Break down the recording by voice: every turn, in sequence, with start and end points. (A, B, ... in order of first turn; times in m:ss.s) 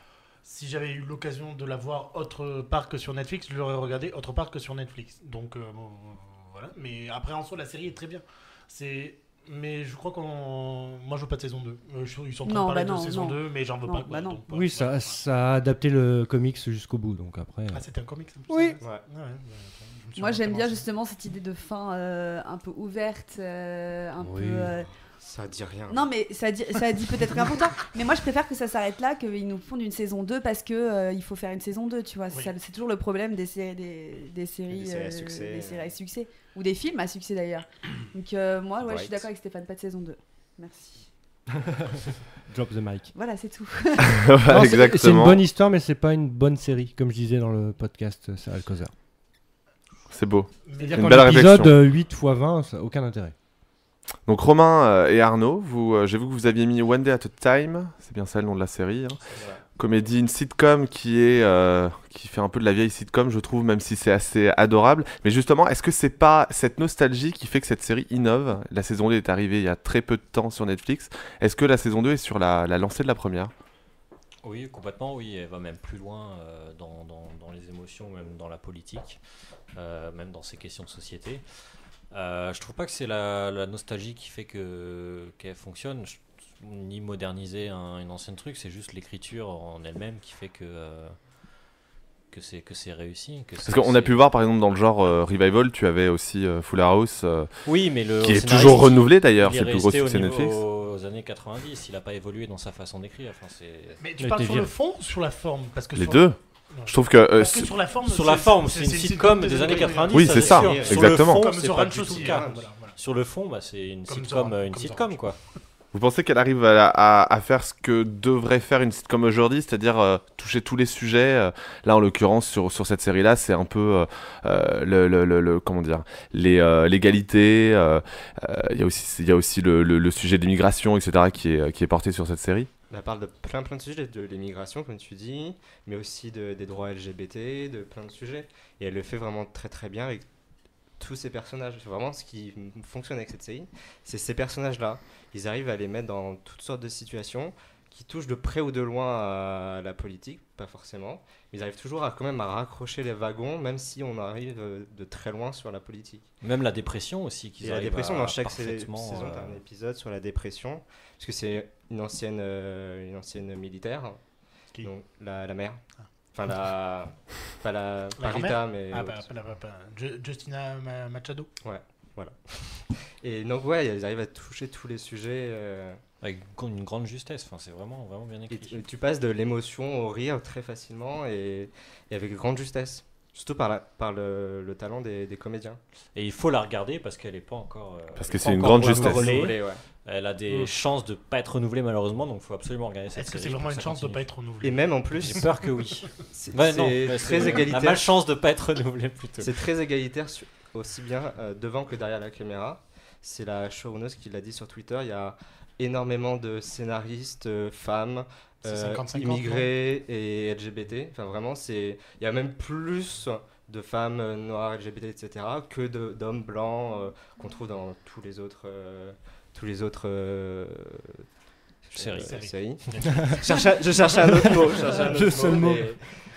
0:00.4-0:15.2 A
0:12.4-0:14.4 B
0:14.5-0:17.8 C
0:17.7-0:20.8 A
0:18.5-0:18.8 C
0:18.8-0:19.0 D
0:20.2-0:24.9 B
0:24.2-0:24.7 C
0:25.2-0:26.1 D
0:25.9-0:41.1 B
0:34.7-0:35.9 D
0:38.8-0:39.2 D
0:42.5-0:43.1 C
0:43.1-0:44.2 B
0:44.0-0:45.4 E
0:44.5-0:48.9 C
0:50.1-0:51.8 E
0:50.6-0:51.2 A
0:50.9-0:53.3 C
0:54.3-0:59.2 E
0:59.3-0:59.6 D
0:59.8-1:13.5 E
1:14.4-1:19.2 F
1:19.7-1:21.4 F
1:22.1-1:31.1 F
1:32.3-1:34.2 F
1:33.6-1:37.5 E
1:37.6-1:44.0 F
1:38.2-1:40.6 E
1:44.0-1:50.2 A
1:44.2-1:44.7 C
1:46.0-1:46.4 E
1:46.9-1:47.7 E
1:48.0-1:55.4 F
1:49.6-1:51.1 D
1:50.1-1:51.5 E
1:50.8-1:53.0 A
1:51.8-1:52.7 D
1:54.1-1:55.2 A
1:55.9-2:12.7 E
2:12.9-2:20.2 D
2:21.0-2:36.3 D
2:36.4-2:39.6 F
2:37.6-2:44.2 D
2:44.8-2:49.3 D
2:48.2-2:51.5 A
2:51.6-2:56.0 D
2:56.2-2:58.8 F
2:58.5-3:05.8 D
3:06.1-3:14.3 F
3:08.1-3:09.4 E
3:08.7-3:09.8 D
3:13.1-3:14.8 A
3:14.6-3:15.4 D
3:15.2-3:19.6 F
3:16.3-3:18.2 D
3:19.4-3:41.2 D
3:28.6-3:29.7 A
3:41.9-3:46.0 D
3:42.0-3:42.4 F
3:42.3-3:43.7 A
3:44.2-3:45.9 C